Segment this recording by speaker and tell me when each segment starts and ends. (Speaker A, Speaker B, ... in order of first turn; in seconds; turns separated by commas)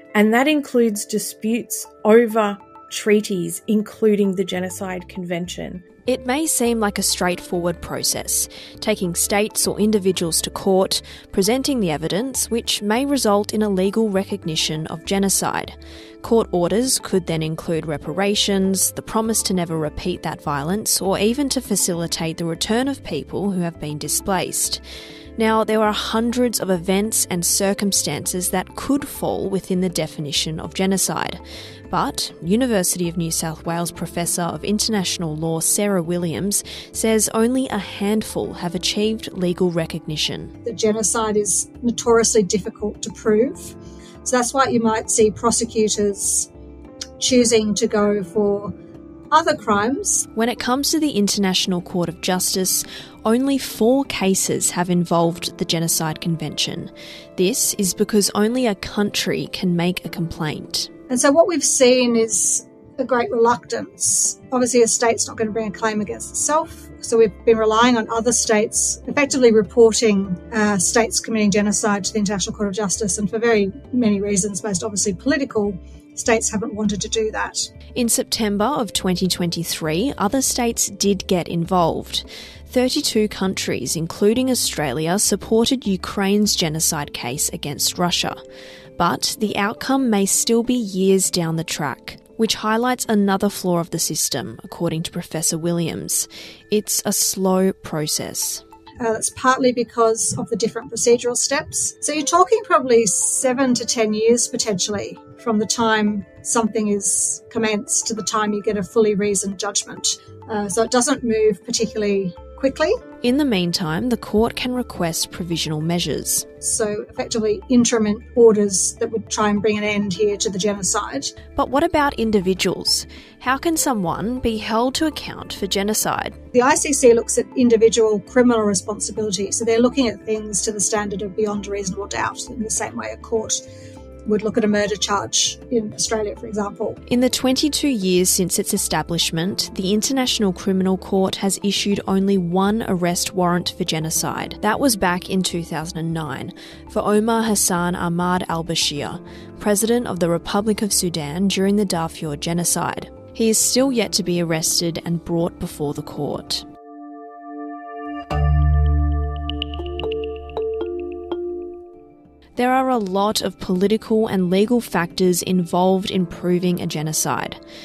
Speaker A: 0.1-5.8, Speaker B: 6.0-24.8, Speaker B: 25.4-40.5, Speaker C: 40.6-46.5, Speaker C: 47.2-48.7, Speaker C: 49.3-50.3, Speaker B: 50.3-60.9, Speaker C: 61.1-77.7, Speaker B: 77.9-88.4, Speaker B: 89.0-98.6, Speaker C: 99.0-113.0, Speaker B: 113.2-116.5, Speaker C: 116.6-121.3, Speaker B: 121.5-126.4, Speaker C: 126.5-133.6, Speaker C: 134.2-137.0, Speaker B: 137.1-156.6, Speaker B: 162.6-167.6